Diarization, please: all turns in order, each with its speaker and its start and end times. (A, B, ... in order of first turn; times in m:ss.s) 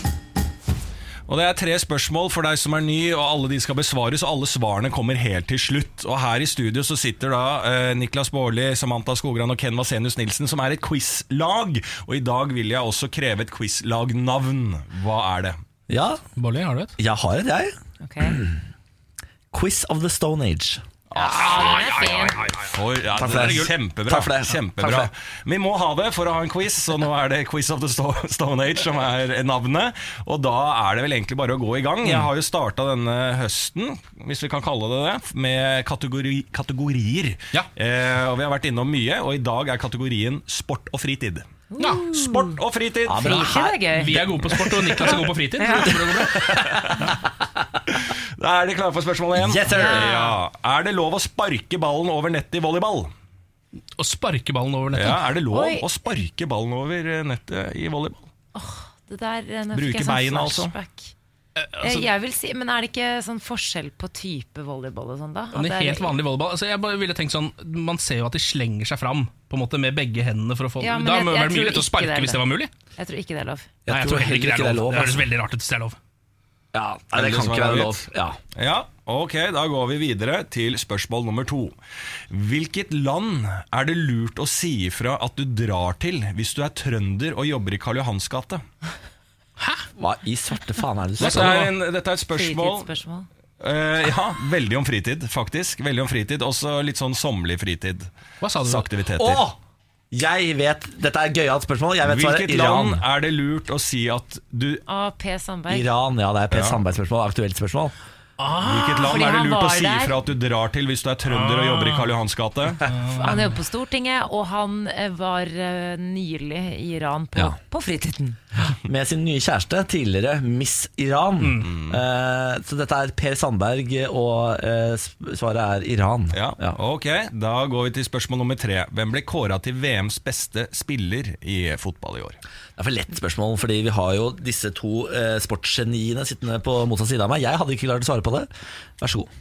0:01.3-0:15.6 A
0:15.9-0:16.2 B
0:16.4-0:16.9 C
0:17.0-0:18.6 B
0:18.0-0:18.4 D
0:19.5-0:20.8 B
0:21.1-0:41.4 A
0:21.1-0:22.6 D
0:23.1-0:25.1 B
0:32.0-0:32.3 C
0:41.7-0:42.6 D
0:41.8-0:42.1 C
0:42.1-0:43.5 A
0:43.0-0:44.2 B
0:43.1-0:44.1 D
0:43.9-0:46.5 C
0:44.4-0:45.1 A
0:45.6-0:46.0 D
0:46.1-0:47.1 B
0:46.2-0:47.0 A
0:47.9-0:53.1 A
0:49.3-0:50.2 B
0:49.7-0:50.4 D
0:54.0-0:55.2 C
0:54.9-0:58.3 A
0:55.5-0:55.9 D
0:58.6-1:01.1 D
0:59.7-1:00.7 A
1:01.6-1:02.1 C
1:01.8-1:06.1 D
1:05.5-1:12.7 C
1:10.8-1:12.4 D
1:13.0-1:13.7 D
1:13.9-1:15.3 B
1:13.9-1:16.0 C
1:16.7-1:18.4 B
1:17.1-1:18.0 A
1:18.6-1:21.8 A
1:22.3-1:28.6 A
1:29.6-1:29.9 C
1:30.0-1:31.7 B
1:31.2-1:31.7 C
1:31.2-1:32.9 A
1:32.3-1:33.3 D
1:33.6-1:39.4 A
1:38.4-1:38.9 C
1:39.2-1:39.6 B
1:40.1-1:43.0 B
1:42.0-1:44.8 A
1:44.9-1:45.9 D
1:45.7-1:47.9 B
1:46.5-1:46.8 A
1:48.4-1:49.1 C
1:48.6-1:52.9 A
1:49.0-1:50.2 D
1:51.3-1:52.1 C
1:52.8-1:53.5 C
1:53.1-1:58.4 D
1:58.7-2:06.8 B
2:01.4-2:01.7 C
2:01.6-2:02.0 A
2:06.3-2:12.4 A
2:12.8-2:19.3 B